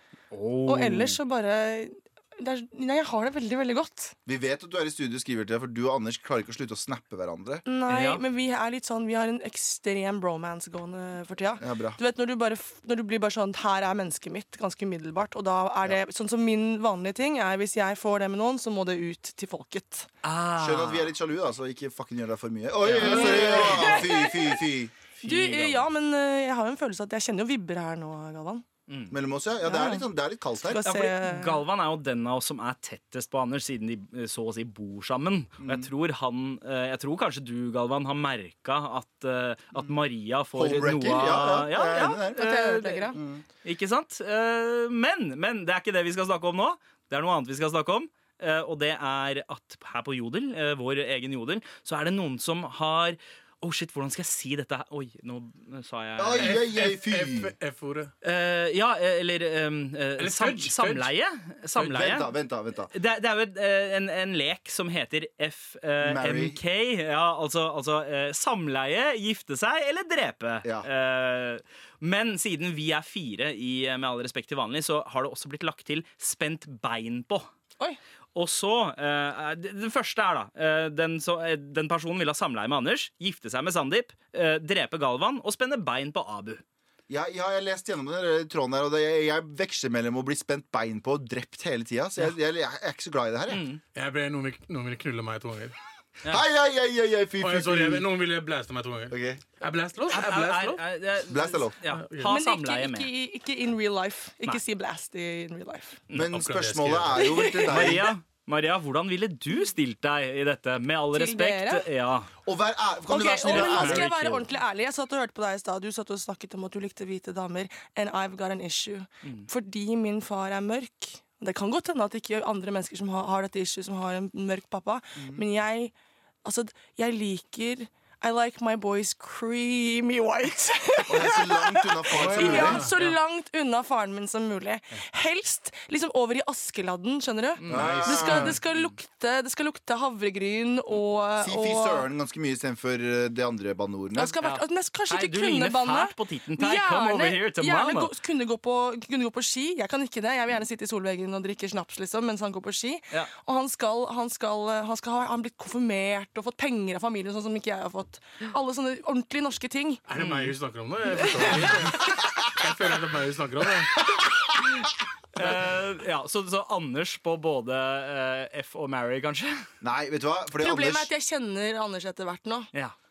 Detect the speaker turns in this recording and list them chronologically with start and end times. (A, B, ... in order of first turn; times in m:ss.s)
0:00.3-0:01.2 A
0:00.6-0:04.1 B
0:04.2-0:07.6 C
0:07.6-0:20.1 B
0:07.9-0:08.2 A
0:11.6-0:12.0 C
0:20.2-0:21.1 A
0:20.6-0:24.9 C
0:22.8-0:24.1 A
0:23.0-0:24.4 B
0:25.2-0:25.9 A
0:25.2-0:28.6 B
0:28.9-0:29.2 A
0:29.1-0:30.8 C
0:29.6-0:30.0 B
0:30.6-0:31.6 B
0:30.8-0:56.6 A
0:35.6-0:35.9 C
0:40.5-0:42.6 C
0:41.9-0:43.2 B
0:43.1-0:43.4 C
0:56.2-0:57.5 C
0:56.4-0:58.1 D
0:58.2-1:02.3 A
1:00.2-1:01.1 D
1:01.9-1:02.9 C
1:02.9-1:17.5 A
1:06.0-1:06.6 C
1:18.3-1:26.6 A
1:27.1-1:33.6 C
1:33.5-1:33.8 A
1:33.9-1:35.7 D
1:36.3-1:38.0 C
1:37.4-1:40.8 D
1:39.1-1:39.4 C
1:40.1-1:43.1 A
1:41.3-1:41.8 C
1:41.9-1:42.2 D
1:42.2-1:46.0 B
1:46.1-1:48.1 C
1:46.2-1:47.4 D
1:47.2-1:48.0 B
1:47.6-1:52.3 A
1:51.1-1:51.9 B
1:52.4-1:54.2 C
1:53.1-2:22.0 B
1:53.5-1:54.1 D
1:53.5-1:54.4 A
1:59.2-1:59.5 A
2:05.2-2:05.4 C
2:11.1-2:12.9 C
2:12.1-2:13.0 D
2:17.6-2:19.0 A
2:17.7-2:18.6 C
2:21.4-2:24.4 C
2:24.1-2:40.0 B
2:24.4-2:28.1 A
2:40.1-2:44.0 D
2:40.2-2:40.5 A
2:41.2-2:42.0 B
2:45.3-2:49.6 A
2:49.8-2:51.1 C
2:50.6-2:52.7 B